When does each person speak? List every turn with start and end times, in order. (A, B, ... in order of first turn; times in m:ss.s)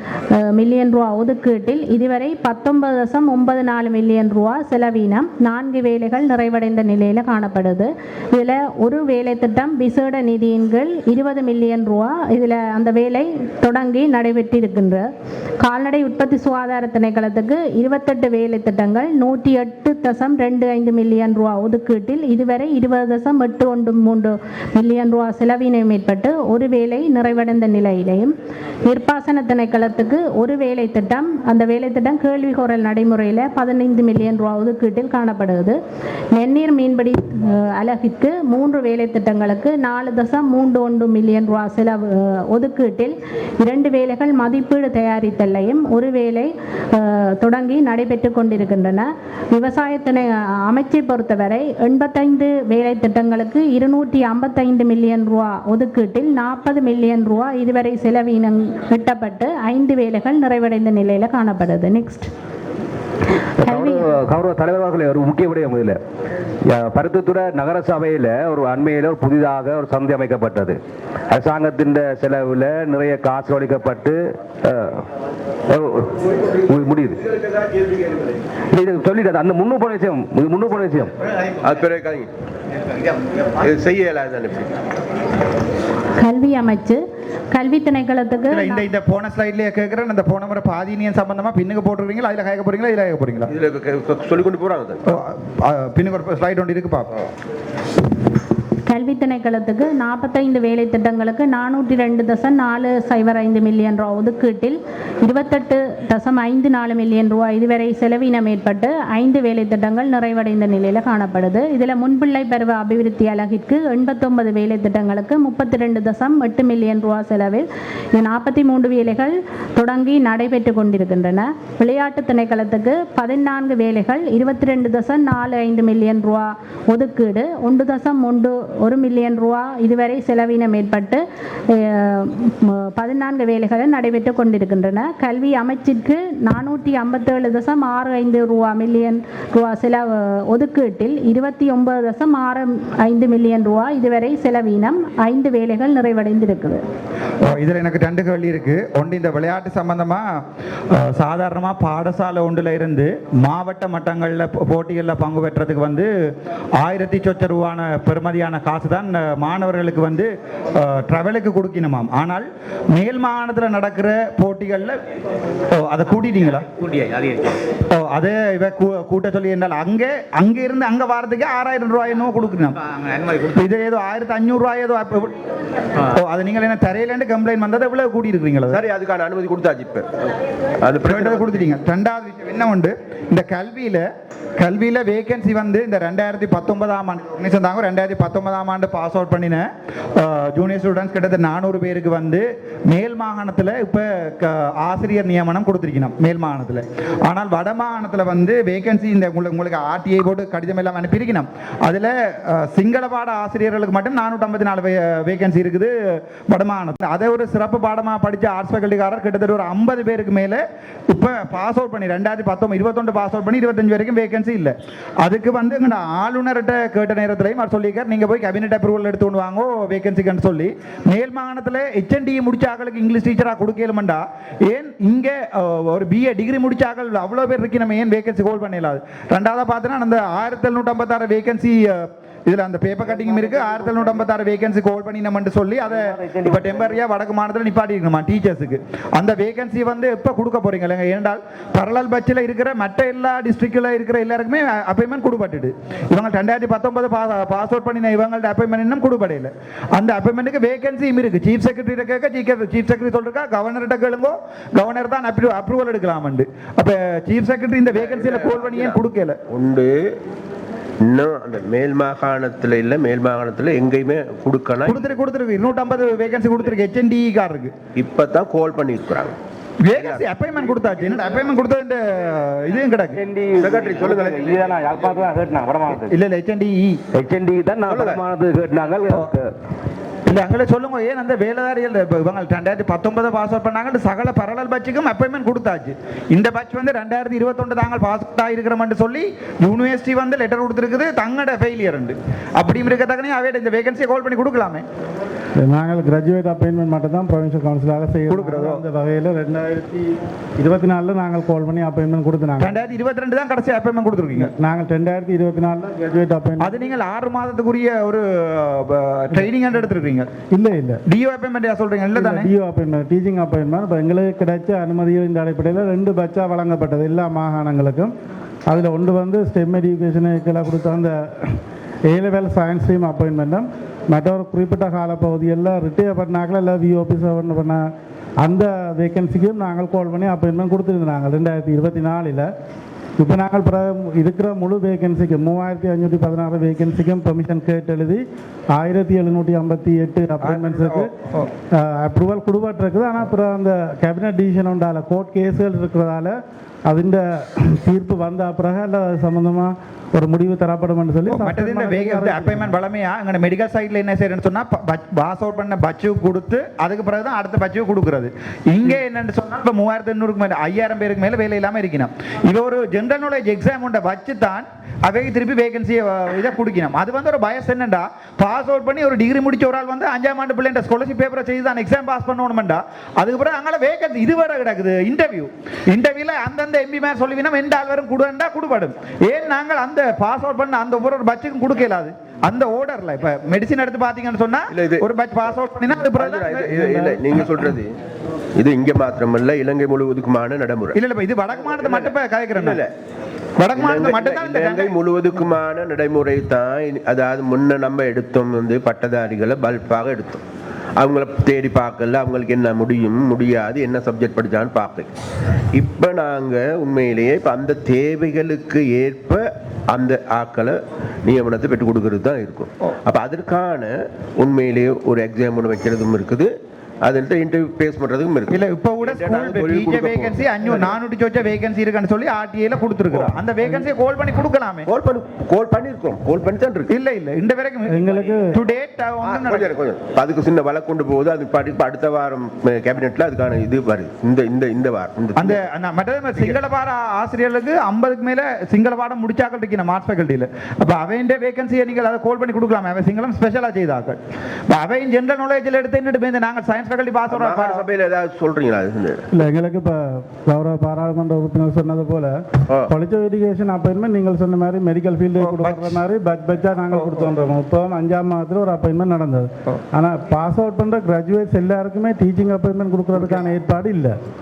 0:00.3-0:15.1 A
0:15.6-0:28.3 A
0:28.8-0:35.8 A
0:36.3-1:02.3 A
1:03.6-1:06.0 B
1:03.6-1:04.2 A
1:06.6-1:10.8 B
1:11.3-1:15.0 B
1:15.7-1:17.2 B
1:18.7-1:21.1 B
1:21.6-1:22.3 C
1:23.2-1:24.7 C
1:26.2-1:28.8 A
1:28.5-1:33.5 D
1:33.5-1:35.0 C
1:35.1-1:37.2 D
1:38.9-2:26.8 A
2:27.4-2:30.2 D
2:30.9-2:36.1 D
2:36.8-2:45.0 D
2:45.8-2:46.7 D
2:47.9-2:52.8 D
2:53.4-2:55.3 D
2:56.0-2:58.8 D
2:58.7-3:00.1 C
3:00.8-3:01.6 C
3:01.0-3:04.0 D
3:04.6-3:25.9 D
3:26.5-4:19.4 D
3:56.2-3:56.9 B
4:17.9-4:19.9 C
4:21.0-4:25.2 C
4:24.8-4:27.7 D
4:28.0-4:29.3 C
4:29.8-4:33.2 D
4:29.9-4:30.2 C
4:33.1-4:36.1 B
4:33.6-4:34.7 C
4:35.9-4:37.0 D
4:37.1-4:39.5 B
4:37.8-4:38.2 C
4:39.1-4:39.3 D
4:40.3-4:54.8 D
4:55.6-5:02.8 E
4:58.3-4:58.8 D
5:02.6-5:04.5 D
5:04.4-5:06.9 E
5:06.6-5:10.3 D
5:10.5-5:11.0 E
5:11.1-5:12.5 D
5:12.1-5:18.1 E
5:18.7-5:27.9 E
5:28.4-5:32.5 E
5:33.2-5:41.1 E
5:40.4-5:41.5 D
5:41.7-5:52.7 E
5:51.3-6:27.3 D
6:24.7-6:25.1 C
6:26.1-6:27.9 C
6:26.7-6:27.2 E
6:28.6-6:31.0 C
6:30.9-6:32.8 D
6:31.5-6:32.9 C
6:33.6-6:35.0 D
6:33.7-6:40.4 C
6:41.0-6:45.1 C
6:45.7-6:56.5 C
6:57.0-7:00.9 C
6:58.5-7:04.9 D
7:03.1-7:03.4 C
7:04.8-7:06.9 C
7:06.9-7:08.0 D
7:07.9-7:08.5 E
7:08.5-7:09.7 D
7:09.2-7:15.6 C
7:15.4-7:24.2 D
7:24.7-7:27.9 D
7:27.3-7:29.2 C
7:29.3-7:44.2 E
7:35.4-7:36.0 D
7:36.9-7:37.3 D